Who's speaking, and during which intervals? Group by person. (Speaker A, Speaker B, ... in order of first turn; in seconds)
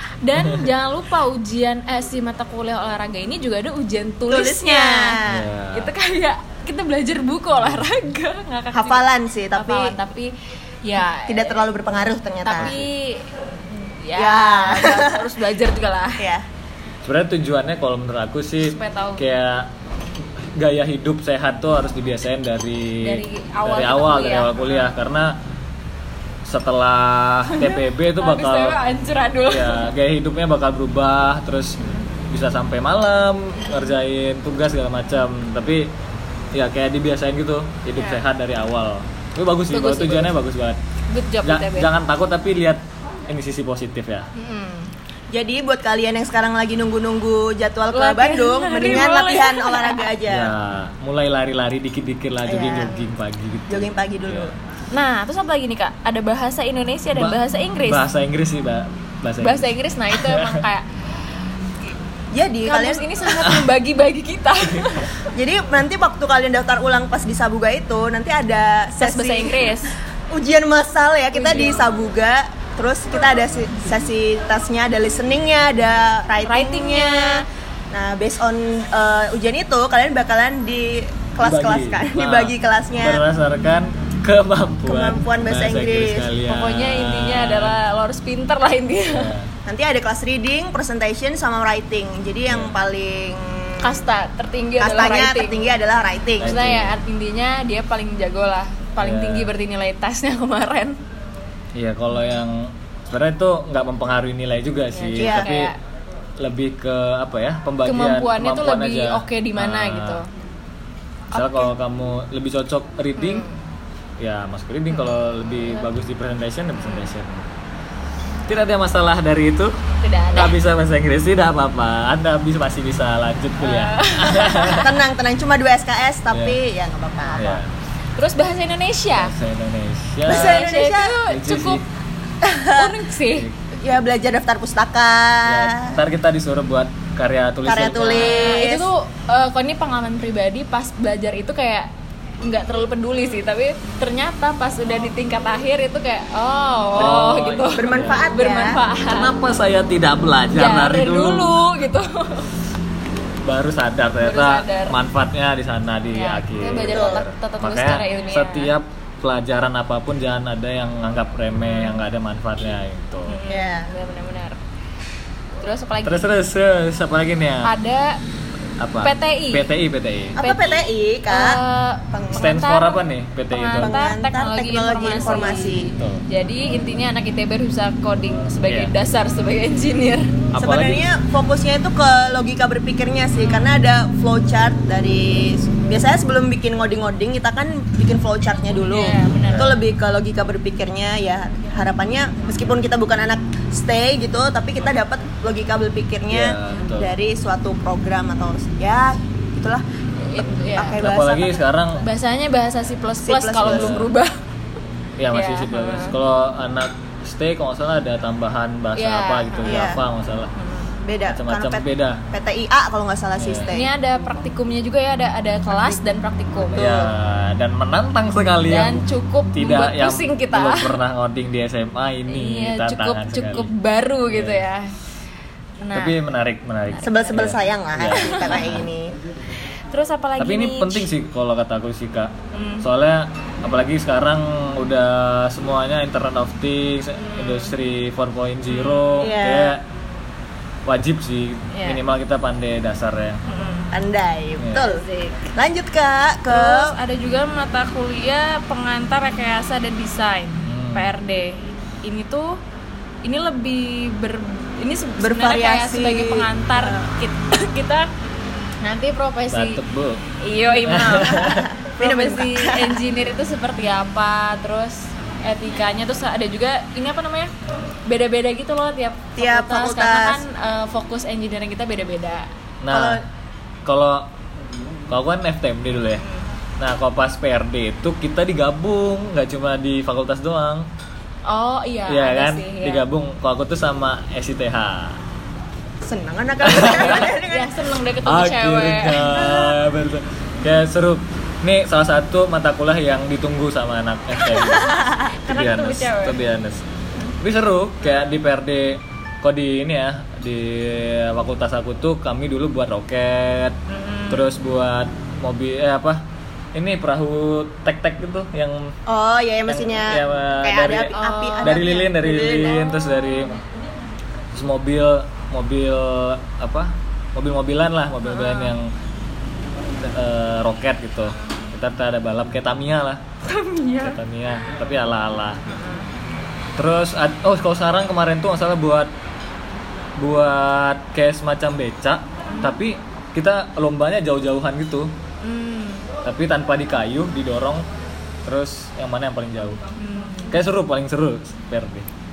Speaker A: 0.2-5.2, 5.7-10.3, 10.8-11.7, 12.4-16.2, 18.6-19.2, 23.0-24.9, 27.5-29.9, 31.8-32.1, 38.0-38.2, 39.7-40.4, 41.1-41.9, 44.4-44.9, 47.9-50.1, 54.9-58.1, 59.4-60.9, 62.6-65.1, 69.0-69.9, 71.3-71.8, 76.4-77.5, 86.5-89.3, 93.8-95.8, 96.4-101.0, 104.9-105.7, 107.9-110.3, 113.2-113.6, 116.8-117.1, 120.0-120.6, 123.6-124.9, 128.2-129.3, 130.3-131.8, 132.7-133.5, 138.0-141.9, 142.4-149.3, 150.6-152.5, 154.2-154.9, 156.1-158.7, 161.6-162.0, 163.3-164.6, 165.6-166.3, 167.6-168.2, 169.0-169.7, 170.4-180.4, 183.4-183.7, 188.7-189.7, 200.2-201.0, 202.0-204.4, 205.3-206.2, 209.0-209.9, 210.6-210.9, 213.7-216.9, 218.7-221.0, 222.3-224.9, 225.8-226.2, 228.1-228.8, 229.9-231.1, 232.5-232.9, 237.2-237.8, 238.7-239.3, 241.7-242.0, 243.5-243.9, 244.7-245.5, 246.5-252.6, 253.2-258.1, 258.8-259.8, 260.4-267.5, 268.1-272.5, 281.5-283.0, 286.9-289.6, 295.3-296.4, 303.9-304.5, 311.1-311.9, 312.5-313.5, 318.2-318.8, 321.4-321.7, 323.4-324.2, 325.7-326.1, 332.5-332.8, 335.4-336.1, 340.0-340.6
Speaker B: 4.3-5.5, 8.7-10.0, 11.3-12.8, 14.2-15.3, 16.2-16.4, 45.3-50.5, 52.5-53.0, 53.7-54.5, 62.3-63.1, 65.3-69.7, 70.3-83.2, 84.8-86.3, 89.7-94.1, 94.8-96.6, 105.2-105.5, 124.8-127.6, 130.3-131.2, 132.4-133.0, 133.8-136.0, 137.7-138.9, 147.7-148.8, 156.9-157.2, 163.5-163.9, 170.4-171.6, 172.1-172.5, 173.8-175.9, 180.6-199.8, 200.4-201.6, 203.2-204.0, 209.6-210.0, 211.0-213.9, 216.8-217.1, 227.0-229.1, 239.2-239.8, 243.9-246.9, 255.2-256.9, 261.2-263.0, 269.4-270.4, 272.9-273.2, 286.0-287.8, 294.8-295.2, 309.1-312.8
Speaker C: 5.3-5.9, 12.6-12.9, 17.1-19.7, 20.6-25.4, 26.4-28.8, 29.5-31.8, 32.3-35.9, 36.5-40.8, 41.4-44.3, 50.3-54.5, 57.1-60.6, 81.4-87.8, 89.1-89.5, 92.5-92.8, 96.4-97.0, 99.0-99.5, 101.8-105.7, 106.4-110.2, 111.3-113.5, 114.2-117.5, 118.5-124.9, 126.3-126.6, 127.3-127.7, 129.2-130.7, 131.3-131.8, 135.4-138.5, 146.9-148.3, 149.1-151.6, 153.4-163.4, 166.0-167.7, 168.8-170.4, 172.3-174.0, 175.7-176.2, 178.7-178.9, 180.5-181.1, 189.5-189.8, 196.3-197.1, 201.0-202.1, 203.6-204.1, 205.2-210.5, 211.3-212.2, 213.4-213.7, 216.8-219.0, 219.6-223.7, 224.3-224.7, 225.9-228.8, 230.4-239.8, 240.9-243.4, 244.6-244.9, 250.6-251.1, 259.5-260.2, 260.8-261.7, 272.8-273.2, 273.9-274.3, 275.1-276.2, 276.8-280.9, 282.1-285.2, 286.6-287.3, 288.2-296.8, 297.4-303.8, 304.3-306.2, 306.7-309.0, 309.7-313.6, 314.5-318.9, 320.0-323.2, 324.0-325.6, 326.8-329.1, 330.2-335.1, 336.2-337.9, 338.4-339.8, 340.5-342.1